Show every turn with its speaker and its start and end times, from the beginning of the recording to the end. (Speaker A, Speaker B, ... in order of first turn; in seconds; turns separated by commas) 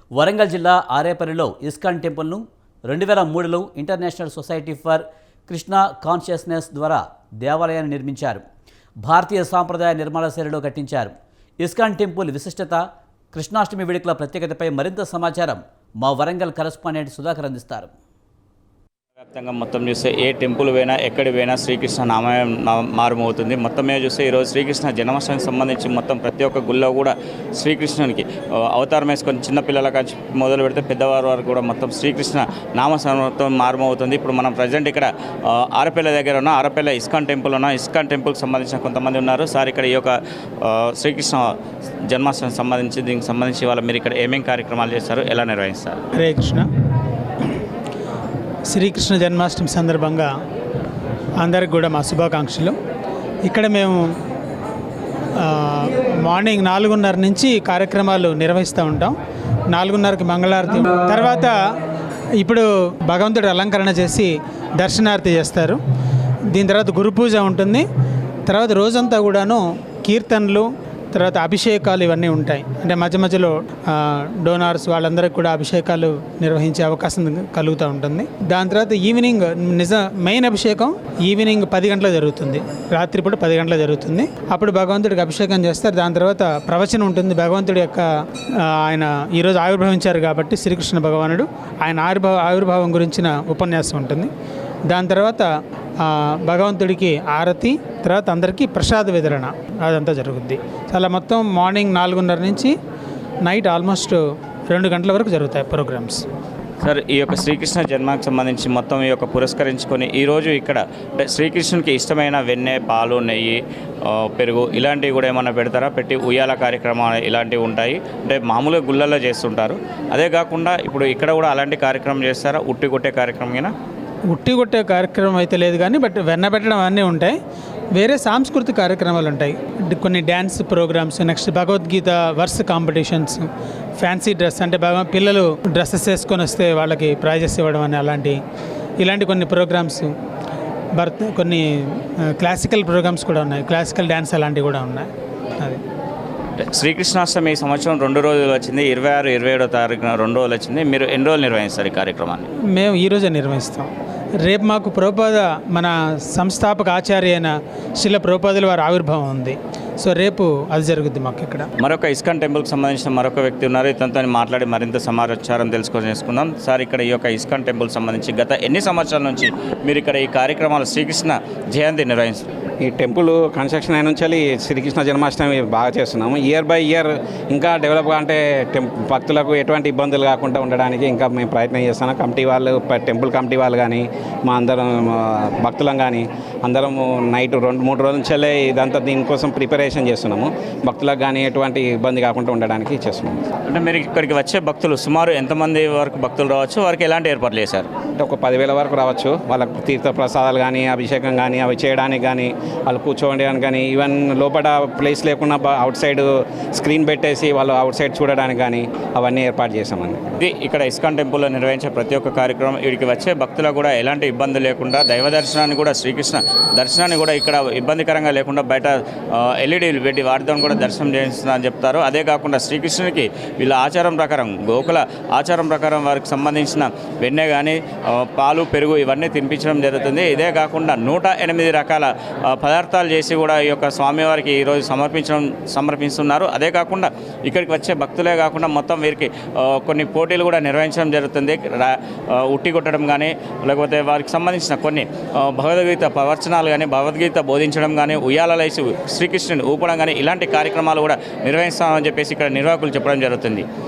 Speaker A: 0.2-8.4, Speaker A: 9.0-17.9, Speaker B: 19.2-41.5, Speaker B: 42.1-46.0, Speaker C: 46.2-46.7, Speaker C: 48.7-50.3, Speaker C: 51.4-52.8, Speaker C: 53.5-54.1, Speaker C: 55.4-59.1, Speaker C: 59.7-61.5, Speaker C: 62.4-65.8, Speaker C: 66.5-67.8, Speaker C: 68.5-88.0, Speaker C: 88.6-94.3, Speaker C: 94.9-95.5, Speaker C: 96.0-102.7, Speaker C: 103.5-106.2, Speaker B: 106.8-123.7, Speaker C: 124.3-127.4, Speaker C: 128.0-133.5, Speaker C: 134.0-138.4, Speaker C: 139.0-140.1, Speaker C: 141.0-145.1, Speaker B: 146.6-152.5, Speaker C: 152.7-153.9, Speaker C: 154.4-161.7, Speaker B: 161.8-172.5, Speaker D: 172.8-193.5, Speaker B: 193.7-197.9, Speaker D: 198.2-210.4, Speaker B: 210.4-253.7